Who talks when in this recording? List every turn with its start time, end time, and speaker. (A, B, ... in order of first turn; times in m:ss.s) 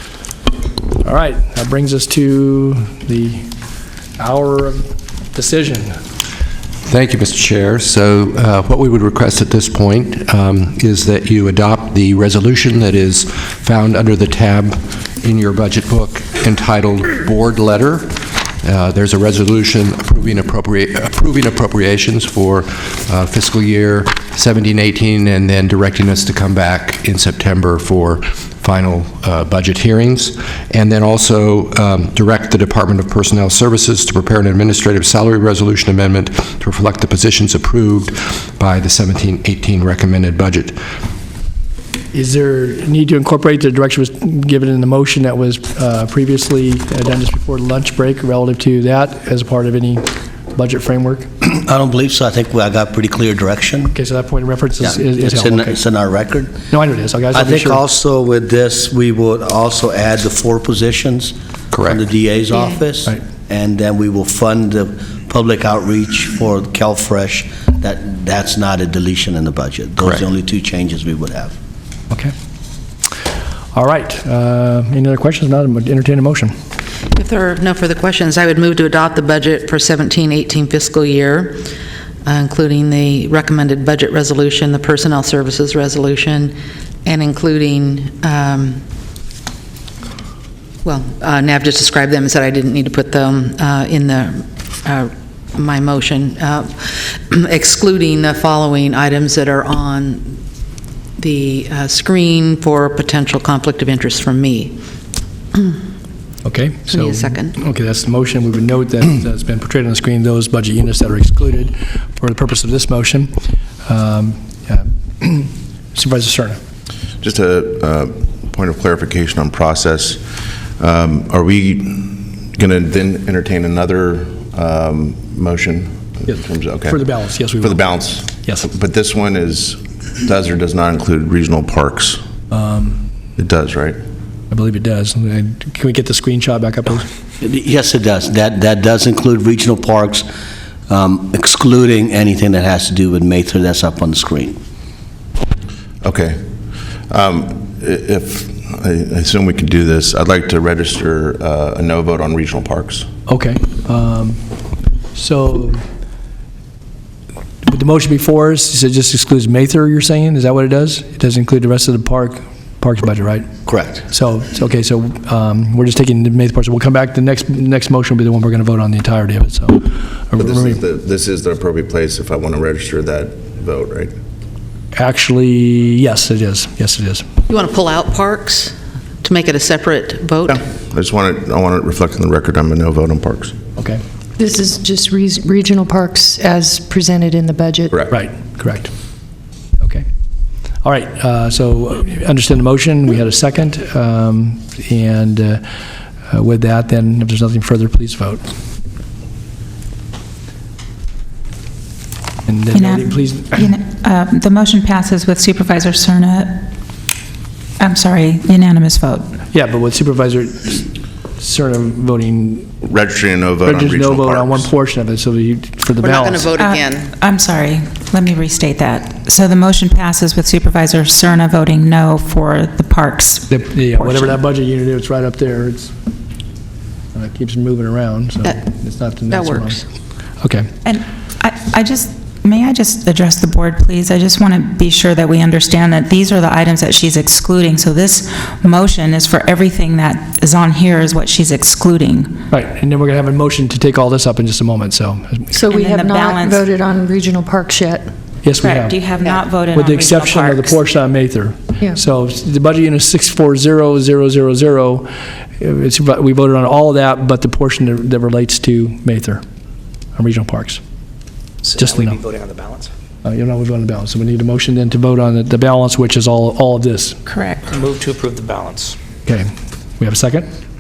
0:01.0-0:03.5 A
0:04.2-0:06.0 A
0:06.9-0:40.8 B
0:42.1-0:51.3 A
0:51.4-0:54.0 C
0:53.9-0:55.8 A
0:54.8-0:56.6 C
0:56.7-0:57.8 A
0:57.3-1:11.6 C
1:01.7-1:02.0 B
1:13.7-1:16.5 A
1:17.1-1:21.6 D
1:22.2-1:28.8 D
1:30.8-1:40.4 D
1:41.2-1:44.8 D
1:46.4-1:53.3 A
1:46.9-1:47.6 D
1:53.8-1:56.6 A
1:57.2-2:00.2 E
2:00.8-2:07.1 E
2:06.3-2:08.7 A
2:07.6-2:12.2 E
2:12.5-2:13.0 A
2:13.4-2:14.0 E
2:14.5-2:17.1 A
2:17.4-2:20.3 C
2:20.9-2:24.6 C
2:26.0-2:26.4 E
2:27.1-2:33.1 E
2:33.3-2:34.4 A
2:35.1-2:35.8 A
2:37.6-2:50.8 A
2:43.7-2:44.0 C
2:50.4-2:54.1 E
2:55.0-2:57.2 A
2:57.5-3:00.6 D
3:00.5-3:03.6 E
3:04.4-3:07.9 F
3:08.1-3:08.9 A
3:09.8-3:10.1 A
3:10.8-3:15.6 A
3:16.3-3:18.4 A
3:22.5-3:23.6 A
3:22.7-3:26.7 G
3:27.8-3:29.3 G
3:29.5-3:32.7 A
3:32.8-3:34.7 E
3:33.6-3:36.5 A
3:36.0-3:37.1 D
3:36.6-3:44.4 G
3:43.5-3:45.9 A
3:47.1-3:49.8 A
3:49.3-3:49.8 D
3:50.4-3:50.7 A
3:50.8-4:02.4 G
4:02.5-4:05.5 A
4:05.5-4:08.1 F
4:05.7-4:06.6 G
4:08.4-4:09.0 A
4:08.6-4:10.8 G
4:09.7-4:19.4 A
4:20.2-4:20.8 A
4:21.6-4:22.9 H
4:21.8-4:22.2 A
4:23.2-4:27.2 A
4:27.3-4:27.6 G
4:27.7-4:29.0 H
4:29.3-4:30.5 A